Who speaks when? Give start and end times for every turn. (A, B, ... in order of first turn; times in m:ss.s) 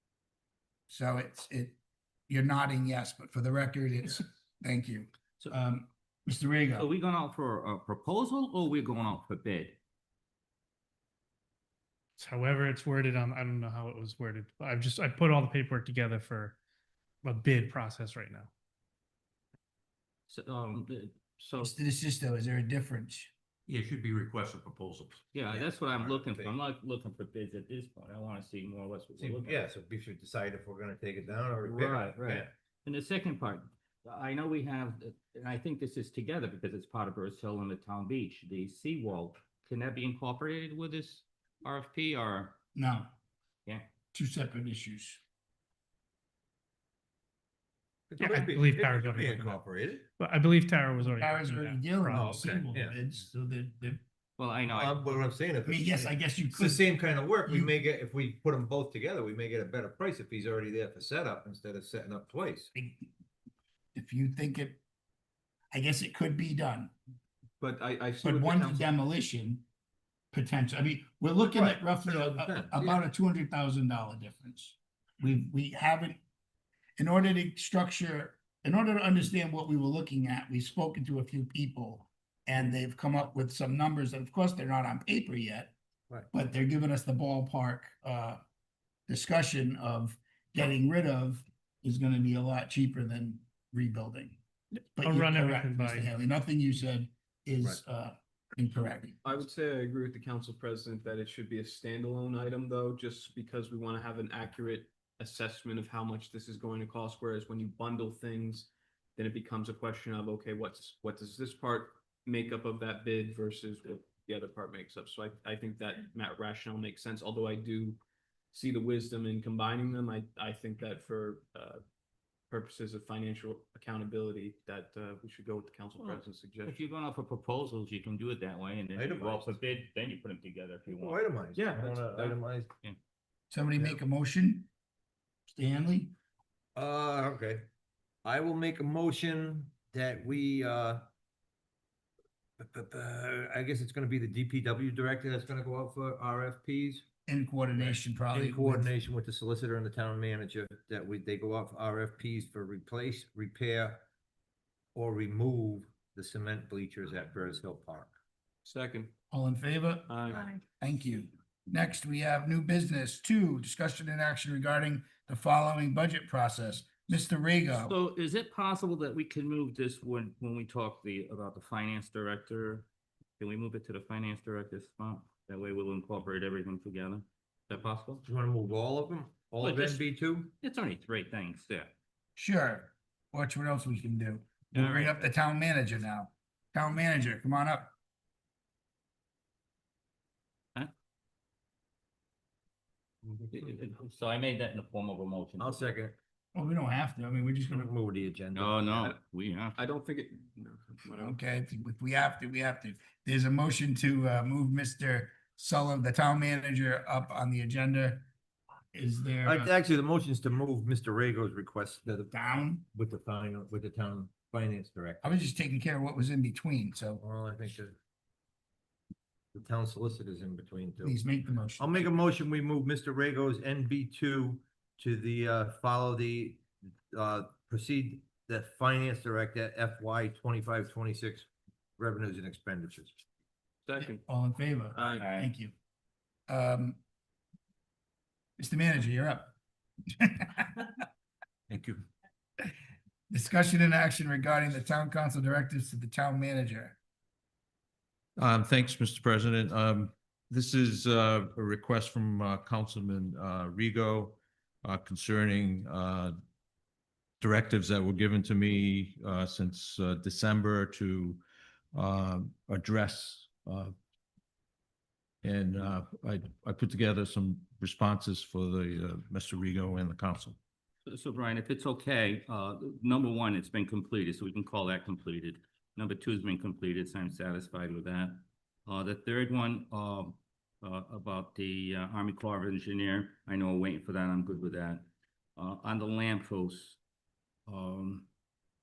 0:00.9-0:01.8 A
0:02.3-0:06.9 A
0:06.7-0:09.8 B
0:12.2-0:16.6 C
0:17.2-0:18.5 C
0:20.3-0:21.7 B
0:21.6-0:23.3 A
0:25.3-0:29.6 B
0:25.5-0:26.6 D
0:29.2-0:32.5 D
0:31.6-0:42.6 B
0:42.8-0:43.1 A
0:44.1-0:45.2 A
0:48.1-0:50.1 D
0:48.2-0:49.6 C
0:50.2-0:52.5 C
0:51.0-0:54.0 A
0:52.1-0:52.9 D
0:54.4-0:55.0 B
0:54.7-1:02.7 D
0:55.6-0:56.9 A
0:57.4-0:57.7 A
1:02.7-1:03.1 A
1:03.9-1:04.8 A
1:05.7-1:06.9 A
1:07.6-1:08.9 E
1:08.2-1:09.6 A
1:10.3-1:16.2 A
1:11.5-1:13.0 D
1:17.0-1:25.7 A
1:26.3-1:28.4 A
1:29.1-1:34.4 A
1:35.0-1:39.2 A
1:35.0-1:36.1 C
1:39.2-1:58.0 E
1:58.5-2:01.8 E
2:02.5-2:06.8 E
2:06.0-2:11.2 B
2:08.9-2:09.6 D
2:10.9-2:12.7 D
2:11.5-2:12.4 E
2:13.5-2:14.7 A
2:15.5-2:16.1 A
2:16.8-2:17.7 D
2:18.2-2:21.0 D
2:22.6-2:27.0 D
2:27.2-2:28.9 A
2:27.8-2:34.0 D
2:34.9-2:38.1 D
2:38.6-2:39.1 E
2:39.3-2:47.9 A
2:40.1-2:40.5 E
2:47.7-2:52.9 B
2:53.4-2:58.2 B
2:58.2-3:00.5 D
2:59.6-3:01.9 B
3:02.4-3:07.9 A
3:04.7-3:05.3 B
3:13.5-3:15.8 B
3:15.6-3:16.2 D
3:16.5-3:17.9 A
3:17.7-3:18.8 D
3:18.5-3:19.8 B
3:18.9-3:19.2 E
3:19.7-3:21.4 E
3:21.2-3:28.3 A
3:28.9-3:29.7 A
3:29.4-3:32.3 D
3:32.3-3:32.8 A
3:32.9-3:35.3 D
3:35.2-3:37.2 A
3:37.2-3:38.0 D
3:39.5-3:41.2 D
3:41.0-3:42.1 A
3:41.8-3:53.1 D
3:53.8-3:54.2 E
3:54.0-3:55.7 A
3:54.9-3:55.3 E
3:55.1-3:55.5 B
3:56.5-3:57.0 A
3:58.6-3:59.5 A
4:00.2-4:00.9 A
4:01.7-4:02.0 F
4:03.3-4:07.0 A
4:08.4-4:16.4 F
4:17.4-4:21.4 F
4:21.9-4:23.9 F
4:25.4-4:30.6 F
4:31.0-4:47.0 B
4:47.7-4:48.2 B